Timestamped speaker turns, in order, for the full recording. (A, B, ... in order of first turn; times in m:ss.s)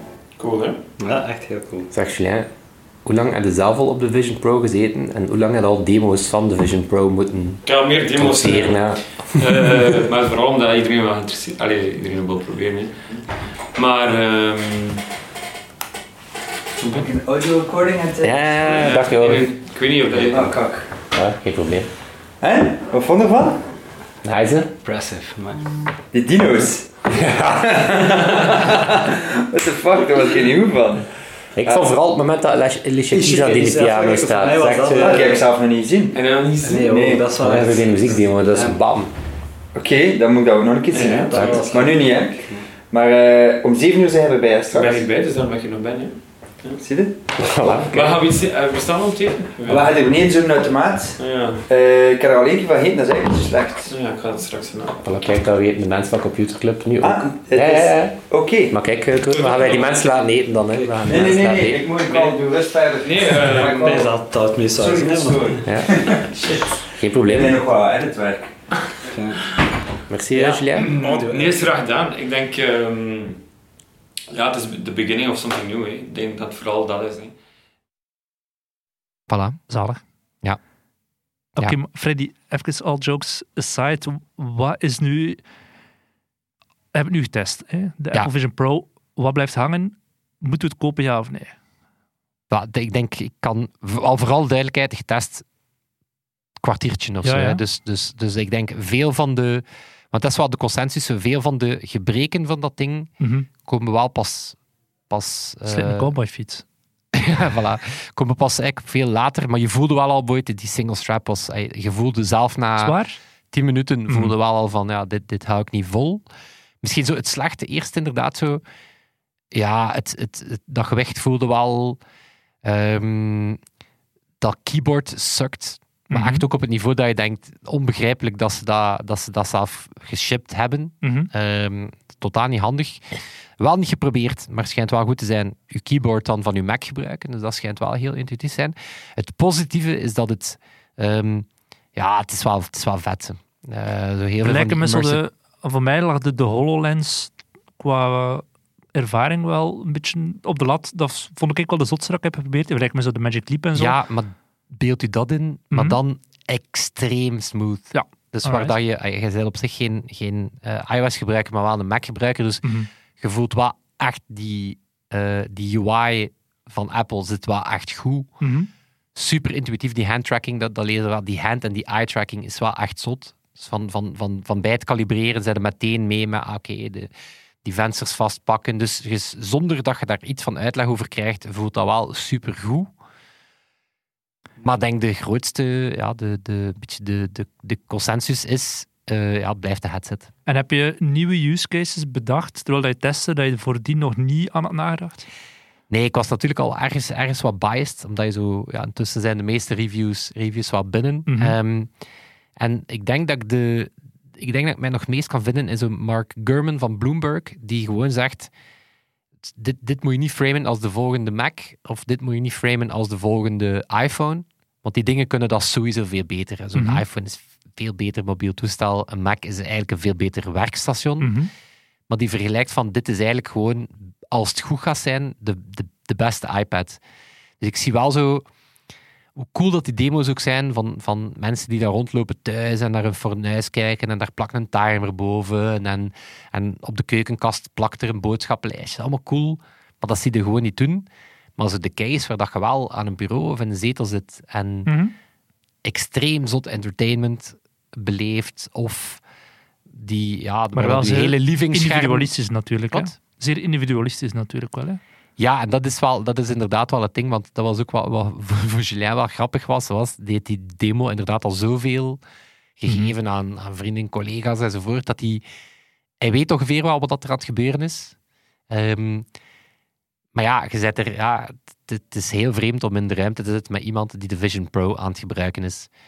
0:00.4-0:00.8 A
0:01.0-0:01.9 B
0:01.9-0:02.5 C
0:03.0-0:09.8 C
0:07.6-0:15.0 A
0:16.8-0:19.0 D
0:18.2-0:19.5 C
0:18.7-0:20.7 A
0:20.1-0:20.9 D
0:21.1-0:21.9 C
0:22.4-0:23.7 D
0:24.2-0:24.7 C
0:24.8-0:25.7 B
0:26.1-0:31.1 D
0:27.1-0:27.8 C
0:31.6-0:35.2 C
0:33.1-0:35.5 B
0:34.4-0:36.2 D
0:36.1-0:37.0 A
0:36.6-0:38.8 B
0:36.7-0:37.3 D
0:37.4-0:39.1 C
0:39.7-0:45.1 D
0:40.9-0:41.3 A
0:41.1-0:42.7 B
0:41.3-0:41.7 C
0:44.7-0:46.8 A
0:46.8-0:47.2 D
0:47.4-0:48.2 C
0:47.6-0:50.0 A
0:49.6-0:53.9 D
0:51.2-0:51.6 A
0:53.9-0:55.0 A
0:55.0-1:01.9 C
0:57.0-0:58.8 D
0:59.3-1:00.2 A
1:00.7-1:01.4 B
1:01.1-1:04.2 D
1:02.1-1:02.4 A
1:03.0-1:04.1 A
1:03.3-1:06.3 B
1:04.7-1:08.8 D
1:05.6-1:06.2 C
1:07.0-1:07.6 C
1:09.0-1:09.6 B
1:10.1-1:10.9 C
1:10.7-1:13.4 A
1:11.0-1:11.7 B
1:14.3-1:17.4 A
1:19.3-1:19.6 C
1:19.7-1:20.0 E
1:21.6-1:25.4 E
1:26.9-1:31.6 E
1:32.5-1:35.5 C
1:36.6-1:44.6 C
1:37.2-1:37.6 E
1:43.2-1:43.5 E
1:45.1-1:46.1 C
1:45.7-1:46.6 E
1:47.1-1:53.0 C
1:52.8-1:53.2 E
1:53.5-1:56.2 C
1:54.1-1:54.3 E
1:56.8-1:58.6 C
1:59.5-2:02.0 C
2:02.6-2:03.6 C
2:04.4-2:25.2 C
2:06.1-2:06.4 E
2:11.0-2:11.3 E
2:24.4-2:34.0 E
2:33.7-2:48.4 C
2:35.7-2:36.0 E
2:37.9-2:38.7 E
2:42.6-2:42.9 E
2:48.4-2:48.7 E
2:49.1-2:57.1 C
2:57.6-3:02.9 C
3:04.6-3:10.3 C
3:10.5-3:15.2 E
3:15.9-3:21.9 C
3:21.3-3:21.6 E
3:22.6-3:28.5 C
3:29.5-3:41.4 C
3:36.8-3:37.0 E
3:41.2-3:41.5 E
3:42.1-3:47.0 C
3:47.6-3:48.5 C
3:49.4-4:04.9 C
4:04.9-4:05.1 E
4:05.8-4:09.2 C
4:09.9-4:12.3 C
4:10.8-4:15.0 E
4:15.4-4:22.2 C
4:22.8-4:25.4 C
4:22.9-4:23.1 E
4:26.2-4:28.2 C
4:28.7-4:29.3 C
4:30.3-4:35.9 C